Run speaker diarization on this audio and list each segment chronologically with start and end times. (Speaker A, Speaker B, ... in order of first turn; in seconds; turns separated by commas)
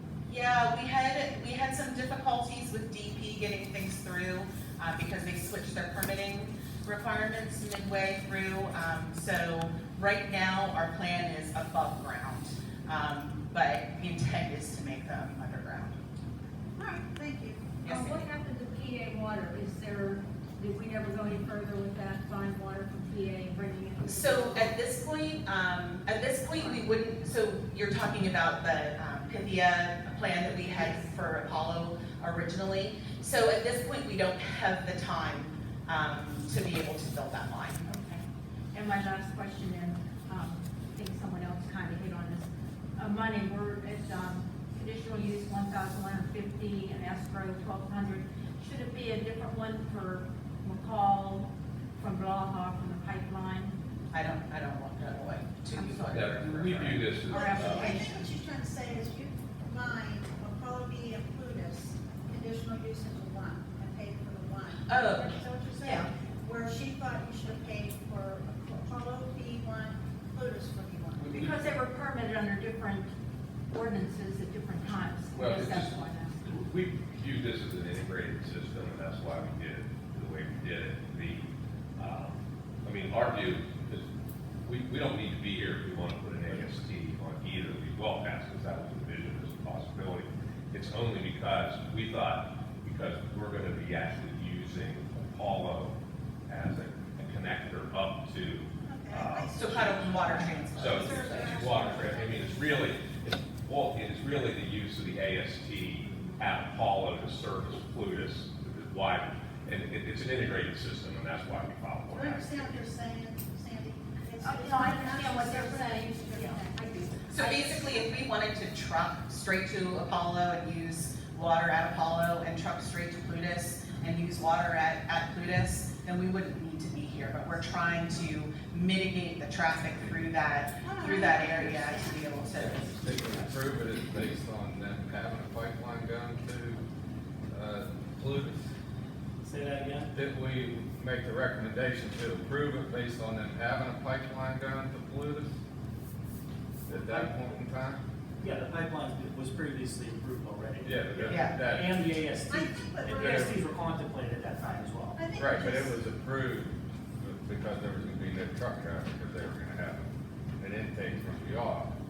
Speaker A: 0.2-16.0, Speaker B: 16.8-17.7, Speaker A: 17.8-18.3, Speaker C: 17.9-24.8, Speaker A: 24.0-37.9, Speaker C: 26.6-26.8, Speaker C: 37.8-53.8, Speaker A: 54.1-57.0, Speaker C: 55.7-56.1, Speaker D: 56.0-58.0, Speaker B: 57.3-71.5, Speaker C: 57.3-58.1, Speaker A: 64.9-66.1, Speaker D: 71.2-71.8, Speaker C: 71.3-73.1, Speaker C: 73.7-76.4, Speaker D: 75.3-84.1, Speaker D: 84.6-95.9, Speaker D: 96.5-100.1, Speaker B: 98.8-102.9, Speaker A: 99.6-101.6, Speaker D: 100.7-112.8, Speaker C: 106.0-106.4, Speaker B: 112.1-116.7, Speaker C: 114.4-118.1, Speaker A: 117.3-133.5, Speaker B: 130.8-132.3, Speaker E: 132.5-136.8, Speaker E: 137.5-138.7, Speaker F: 139.4-140.1, Speaker E: 140.1-145.5, Speaker E: 146.9-148.0, Speaker F: 146.9-147.3, Speaker F: 148.4-155.2, Speaker E: 150.8-151.9, Speaker A: 151.3-151.6, Speaker B: 152.5-153.6, Speaker E: 153.0-153.6, Speaker B: 155.2-155.9, Speaker E: 155.3-161.9